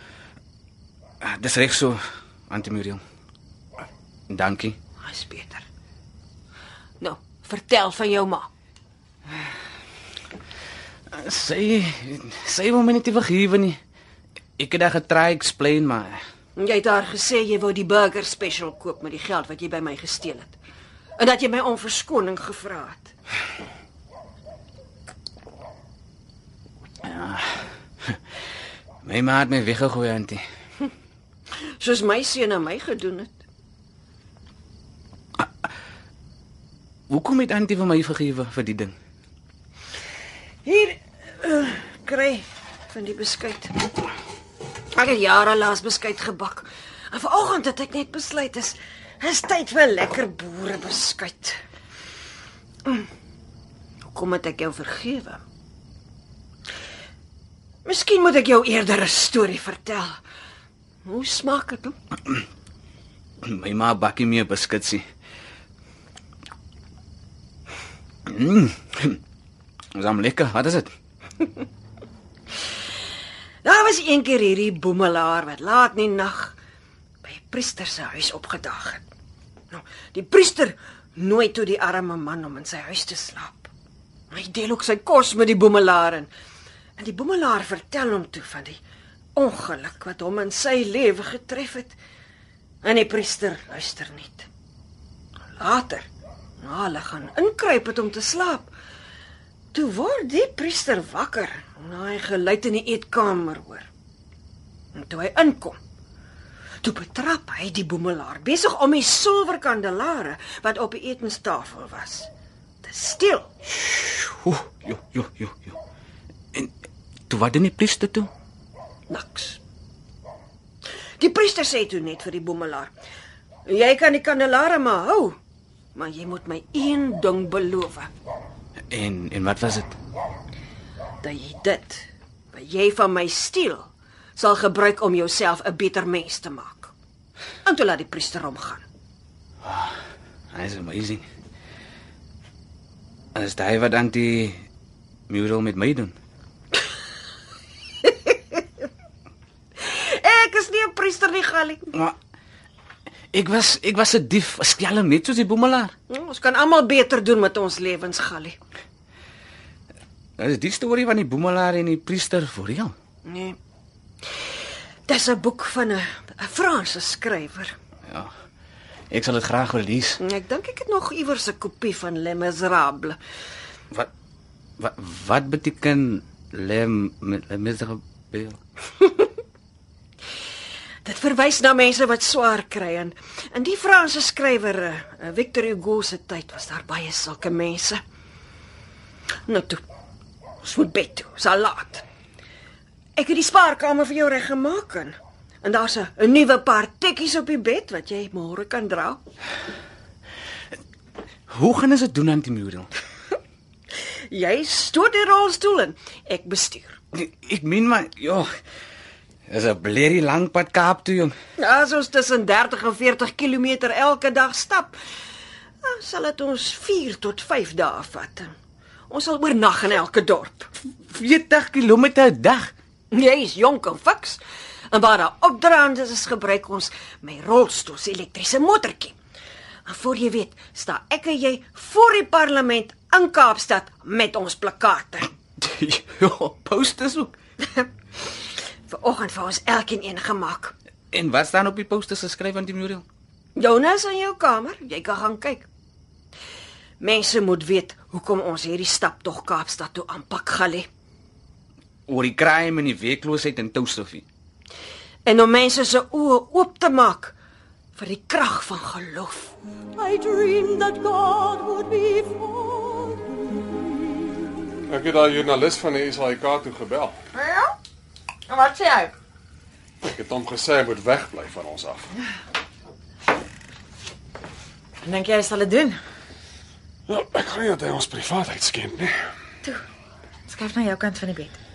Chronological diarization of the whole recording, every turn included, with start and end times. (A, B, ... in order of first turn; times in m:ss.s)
0:01.2-0:03.0 A
0:04.3-0:04.8 A
0:05.0-0:05.6 B
0:07.0-0:08.5 B
0:11.1-0:13.8 A
0:14.6-0:16.2 A
0:16.6-0:20.6 B
0:21.2-0:23.1 B
0:27.0-0:28.2 A
0:29.0-0:30.4 A
0:31.8-0:33.4 B
0:35.4-0:35.7 A
0:37.1-0:38.9 A
0:40.6-0:43.7 B
0:44.9-0:51.6 B
0:54.1-0:55.4 B
0:57.8-1:00.2 B
1:01.0-1:02.0 B
1:03.4-1:05.0 A
1:08.3-1:09.2 A
1:09.9-1:10.9 A
1:13.6-1:16.5 B
1:17.2-1:19.0 B
1:19.7-1:23.7 B
1:24.3-1:26.3 B
1:27.0-1:28.8 B
1:29.4-1:32.0 B
1:32.8-1:34.5 B
1:35.6-1:36.1 B
1:36.6-1:38.7 B
1:39.7-1:43.9 B
1:44.9-1:45.8 B
1:46.8-1:52.3 B
1:52.8-1:53.5 B
1:53.7-1:55.8 A
1:57.3-1:58.3 A
1:59.1-1:59.6 B
2:01.2-2:02.9 B
2:03.6-2:05.4 B
2:05.9-2:08.1 B
2:08.9-2:10.0 A
2:11.2-2:16.9 B
2:17.6-2:18.8 B
2:19.6-2:19.9 A
2:20.5-2:21.3 A
2:23.4-2:24.6 A
2:25.3-2:26.1 A
2:28.0-2:28.6 B
2:29.8-2:31.8 B
2:33.3-2:35.9 A
2:36.1-2:38.6 B
2:40.4-2:42.9 A
2:43.2-2:43.6 B
2:45.1-2:47.7 B
2:49.1-2:50.2 A
2:50.2-2:53.2 B
2:54.8-2:58.6 A
3:01.0-3:08.0 B
3:09.5-3:09.8 B
3:10.6-3:12.0 B
3:13.2-3:19.2 B
3:21.5-3:22.9 A
3:24.3-3:27.0 B
3:27.1-3:28.5 A
3:29.5-3:31.3 A
3:31.6-3:35.0 B
3:35.8-3:38.5 B
3:39.1-3:40.7 B
3:41.1-3:42.7 A
3:43.1-3:49.2 B
3:49.8-3:55.3 B
3:55.6-3:57.3 A
3:57.6-4:00.7 B
4:01.1-4:03.0 A
4:03.6-4:05.7 B
4:07.0-4:10.9 B
4:12.1-4:14.2 A
4:15.2-4:17.3 B
4:18.0-4:19.5 B
4:20.0-4:23.9 C
4:24.9-4:27.1 D
4:27.3-4:27.7 E
4:28.5-4:29.1 E
4:30.0-4:32.1 D
4:35.0-4:36.0 E
4:37.1-4:39.3 D
4:40.5-4:41.6 E